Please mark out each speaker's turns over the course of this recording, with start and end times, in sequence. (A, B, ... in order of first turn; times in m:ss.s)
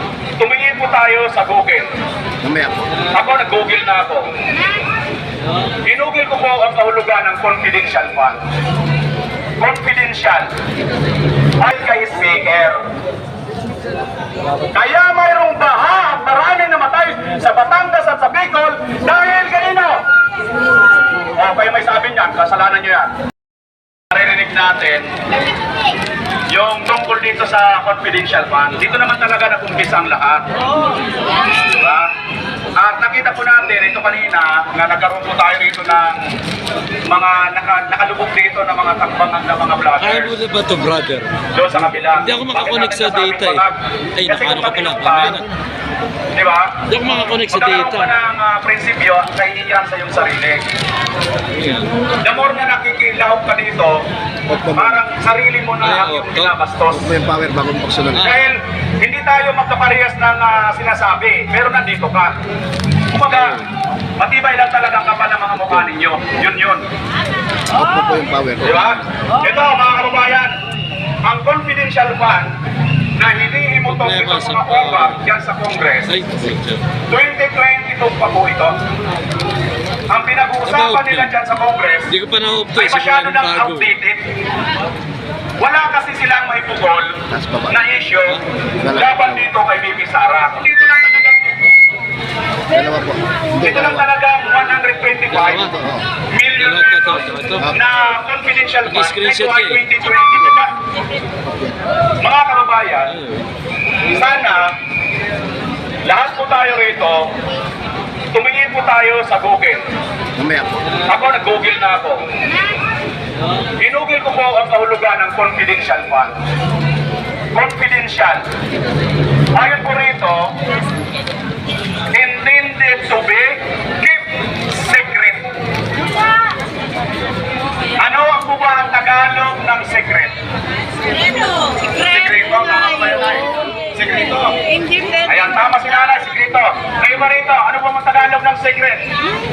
0:00.4-0:01.9 A
0:02.4-0:02.9 B
0:03.1-0:04.3 A
0:05.9-0:08.4 A
0:09.6-0:10.5 A
0:11.6-0:12.8 A
0:14.7-0:20.0 A
0:21.4-0:23.1 A
0:24.1-0:25.1 A
0:26.5-0:30.5 A
0:31.6-0:32.1 A
0:32.8-0:36.2 A
0:37.1-0:40.4 A
0:40.0-0:41.3 C
0:41.5-0:45.5 A
0:42.2-0:43.6 C
0:44.2-0:45.5 C
0:46.4-0:46.8 A
0:46.9-0:48.1 C
0:47.4-0:50.6 A
0:51.6-0:51.9 C
0:52.2-0:54.0 A
0:54.5-0:54.9 B
0:54.7-0:57.2 A
0:55.8-0:56.5 C
0:57.0-0:58.3 B
0:58.1-1:02.4 A
1:03.1-1:03.6 A
1:04.2-1:06.9 A
1:07.7-1:08.8 B
1:08.6-1:10.5 A
1:11.2-1:12.5 A
1:13.2-1:16.2 A
1:14.0-1:15.1 C
1:16.1-1:16.8 C
1:17.1-1:18.8 A
1:20.1-1:22.2 A
1:20.7-1:21.3 C
1:22.1-1:23.8 C
1:22.8-1:24.2 A
1:25.6-1:31.4 A
1:27.3-1:27.7 B
1:28.8-1:29.1 B
1:32.7-1:33.9 B
1:33.5-1:40.7 A
1:35.4-1:35.8 C
1:35.7-1:36.0 B
1:36.6-1:37.7 C
1:38.9-1:39.8 C
1:42.2-1:43.2 A
1:44.1-1:44.7 A
1:46.0-1:47.3 A
1:48.3-1:49.8 A
1:50.4-1:50.8 B
1:51.0-1:52.2 A
1:53.8-1:56.3 A
1:57.5-1:58.4 A
1:59.6-2:00.5 A
2:02.1-2:05.4 A
2:08.0-2:10.3 A
2:12.0-2:14.6 A
2:15.2-2:19.0 A